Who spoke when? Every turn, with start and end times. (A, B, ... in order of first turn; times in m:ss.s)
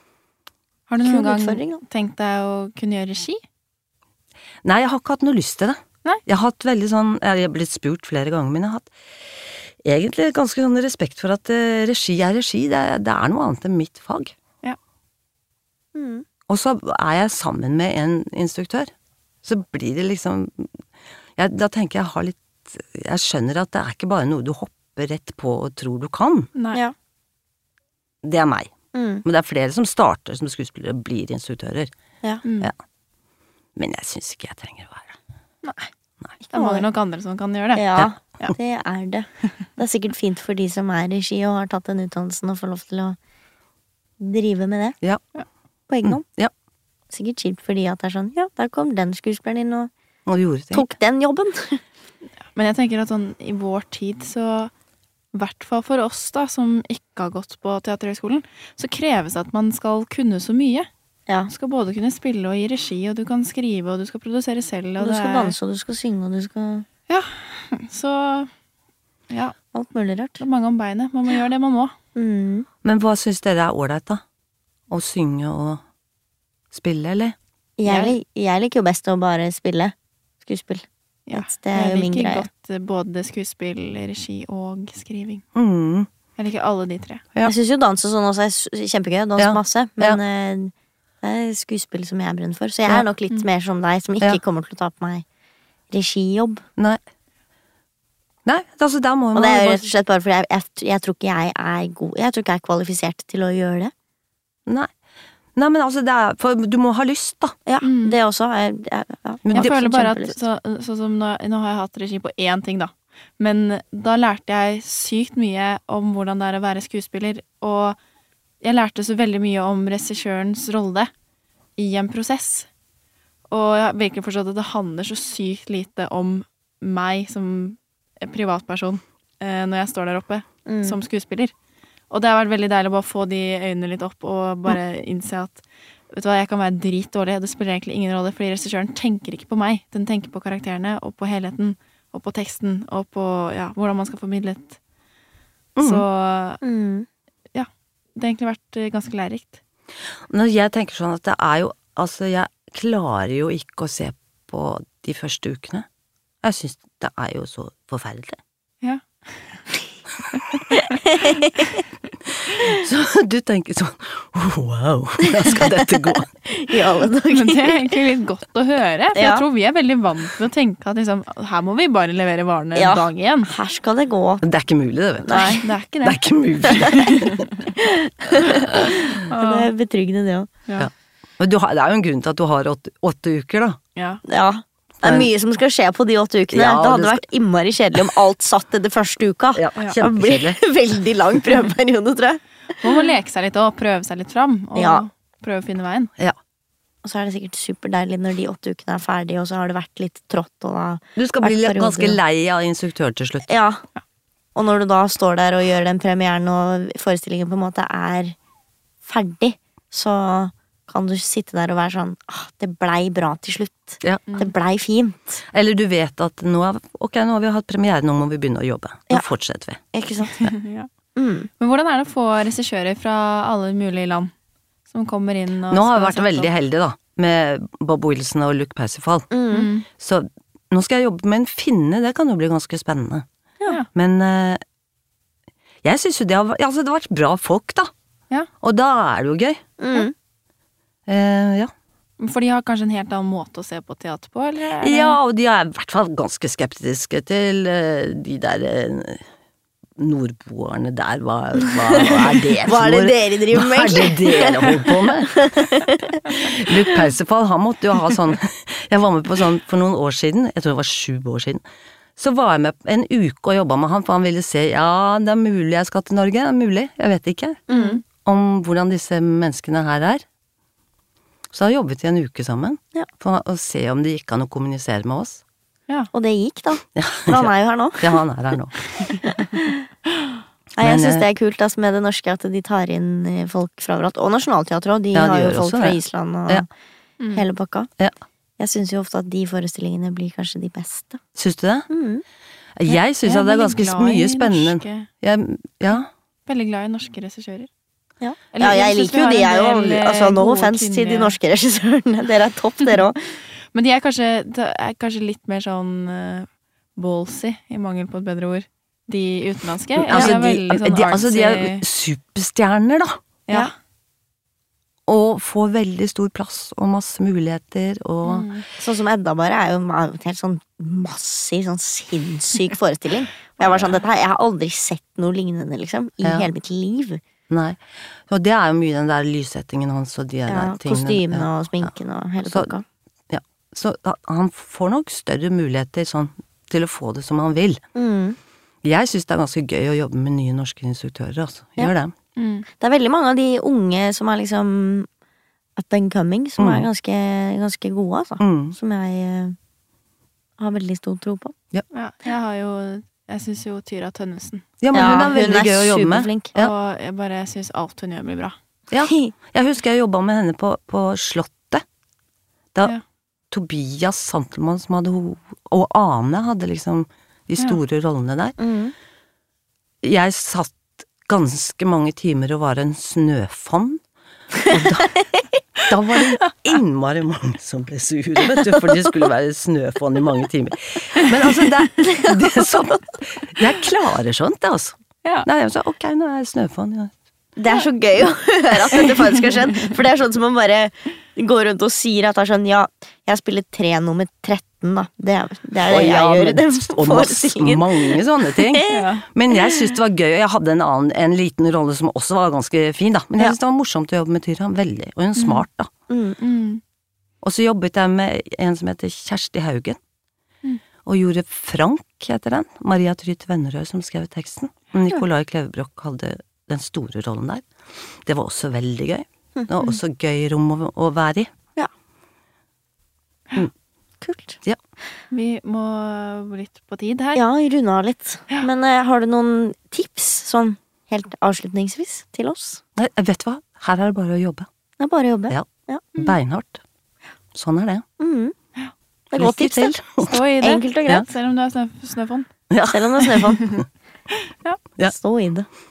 0:00.9-0:03.4 A
0:01.0-0:01.8 B
0:04.6-0:08.9 C
0:09.8-0:14.4 C
0:16.0-0:16.3 B
0:16.5-0:18.9 C
0:19.4-0:20.7 C
0:21.4-0:26.5 C
0:26.6-0:26.8 A
0:28.2-0:28.7 C
0:28.9-0:29.2 B
0:29.2-0:31.9 C
0:32.4-0:32.7 A
0:33.8-0:35.2 C
0:35.6-0:35.9 A
0:36.5-0:36.9 B
0:36.5-0:37.9 A
0:37.7-0:43.2 B
0:44.2-0:45.0 B
0:45.9-0:46.2 B
0:46.0-0:46.5 C
0:47.1-0:49.9 B
0:50.3-0:50.9 C
0:50.7-0:51.8 B
0:52.5-0:54.7 A
0:55.3-1:00.9 A
1:01.5-1:05.6 A
1:05.0-1:06.8 B
1:07.1-1:08.5 A
1:09.7-1:10.4 B
1:10.4-1:12.0 A
1:12.2-1:12.7 B
1:12.8-1:14.2 C
1:14.9-1:15.8 C
1:16.7-1:17.4 C
1:17.8-1:22.5 B
1:17.9-1:18.2 A
1:21.3-1:25.4 A
1:25.6-1:26.1 C
1:26.4-1:27.2 A
1:27.4-1:35.2 B
1:29.4-1:30.2 C
1:35.9-1:36.6 B
1:38.4-1:39.8 C
1:39.4-1:43.9 B
1:45.6-1:47.6 C
1:47.7-1:50.4 B
1:47.8-1:48.2 A
1:49.4-1:49.8 C
1:49.5-1:58.0 A
1:58.6-2:01.1 A
2:01.8-2:02.7 A
2:03.5-2:11.5 A
2:10.7-2:11.0 B
2:12.1-2:24.8 A
2:25.8-2:26.0 C
2:25.8-2:26.6 A
2:26.6-2:27.1 B
2:27.5-2:29.6 A
2:30.3-2:35.9 C
2:36.4-2:38.4 C
2:38.8-2:39.6 A
2:40.4-2:41.0 A
2:40.7-2:41.8 B
2:42.4-2:46.3 C
2:45.3-2:45.8 B
2:46.4-2:48.0 B
2:47.3-2:53.5 A
2:49.2-2:49.4 B
2:52.8-2:54.4 B
2:54.4-2:57.5 C
2:55.2-2:55.6 B
2:55.3-2:56.2 A
2:56.7-2:57.0 B
2:56.7-2:57.7 A
2:57.8-3:00.5 B
2:58.4-2:58.9 C
2:59.1-2:59.7 A
3:00.8-3:03.8 C
3:04.0-3:04.2 A
3:04.2-3:13.0 B
3:05.0-3:05.3 C
3:06.5-3:07.2 C
3:09.6-3:10.6 C
3:12.8-3:16.1 A
3:14.8-3:15.1 B
3:17.0-3:22.2 B
3:21.2-3:23.5 C
3:23.5-3:23.8 B
3:24.6-3:28.4 B
3:29.0-3:35.4 B
3:34.3-3:34.5 A
3:35.5-3:39.8 C
3:39.9-3:40.5 B
3:40.3-3:40.9 A
3:41.2-3:41.5 B
3:41.6-3:44.3 A
3:44.9-3:46.5 A
3:45.7-3:49.3 C
3:49.3-3:49.7 B
3:49.5-3:49.9 A
3:50.0-3:53.2 C
3:53.9-3:54.6 C
3:55.8-3:57.9 C
3:58.6-3:59.6 C
3:59.8-4:00.1 B
4:01.1-4:01.7 C
4:02.2-4:05.2 A
4:04.8-4:09.2 C
4:10.0-4:15.8 C
4:11.9-4:16.2 B
4:16.3-4:21.6 C
4:22.2-4:30.2 C
4:27.7-4:28.0 B
4:27.7-4:28.0 A
4:31.5-4:35.4 C
4:36.1-4:38.2 B
4:37.0-4:38.8 C
4:39.2-4:39.8 B
4:40.8-4:46.7 B
4:40.8-4:41.2 C
4:45.1-4:46.0 C
4:47.2-4:47.5 A
4:47.3-4:47.9 B
4:48.6-4:51.2 B
4:51.4-4:51.9 C
4:51.9-4:52.2 B
4:52.8-4:56.1 C
4:52.9-4:55.1 A
4:56.5-4:57.7 A
4:58.2-5:03.4 B
4:58.5-5:01.4 A
5:03.7-5:11.8 A
5:10.0-5:13.2 C
5:10.1-5:10.4 B
5:15.1-5:18.5 C
5:18.2-5:18.6 A
5:18.8-5:27.2 B
5:23.6-5:24.0 A
5:26.2-5:26.5 C
5:27.5-5:31.9 C
5:30.5-5:32.8 B
5:32.4-5:32.7 C
5:33.3-5:37.8 C
5:38.0-5:38.4 B
5:38.8-5:42.1 C
5:42.4-5:42.7 A
5:42.7-5:45.1 B
5:45.8-5:49.6 B
5:46.6-5:46.9 C
5:48.4-5:48.8 C
5:50.6-5:51.5 B
5:51.9-5:55.2 A
5:54.8-5:56.7 C
5:54.9-5:56.5 B
5:56.6-5:58.6 A
5:58.9-6:01.8 C
5:59.0-5:59.3 B
6:03.5-6:08.6 C
6:08.6-6:09.0 B
6:10.0-6:14.0 C
6:14.6-6:15.4 B
6:14.6-6:15.2 C
6:15.9-6:27.1 C
6:18.5-6:18.9 B
6:22.0-6:22.6 B
6:27.6-6:39.1 B
6:35.8-6:45.9 C
6:38.9-6:39.3 A
6:45.4-6:45.6 A
6:46.1-6:46.4 B
6:46.4-6:46.8 A
6:47.4-6:50.0 C
6:51.0-6:57.6 C
6:58.2-7:01.5 C
7:04.2-7:04.6 B
7:05.3-7:07.4 A
7:07.4-7:12.8 B
7:13.0-7:14.7 C
7:15.0-7:16.0 B
7:15.5-7:16.8 C
7:17.5-7:18.0 C
7:18.2-7:18.6 B
7:19.3-7:20.0 B
7:19.3-7:20.4 C
7:20.2-7:22.5 A
7:20.6-7:21.3 B
7:22.7-7:23.8 C
7:22.9-7:23.7 B
7:23.5-7:24.8 A
7:25.0-7:25.7 B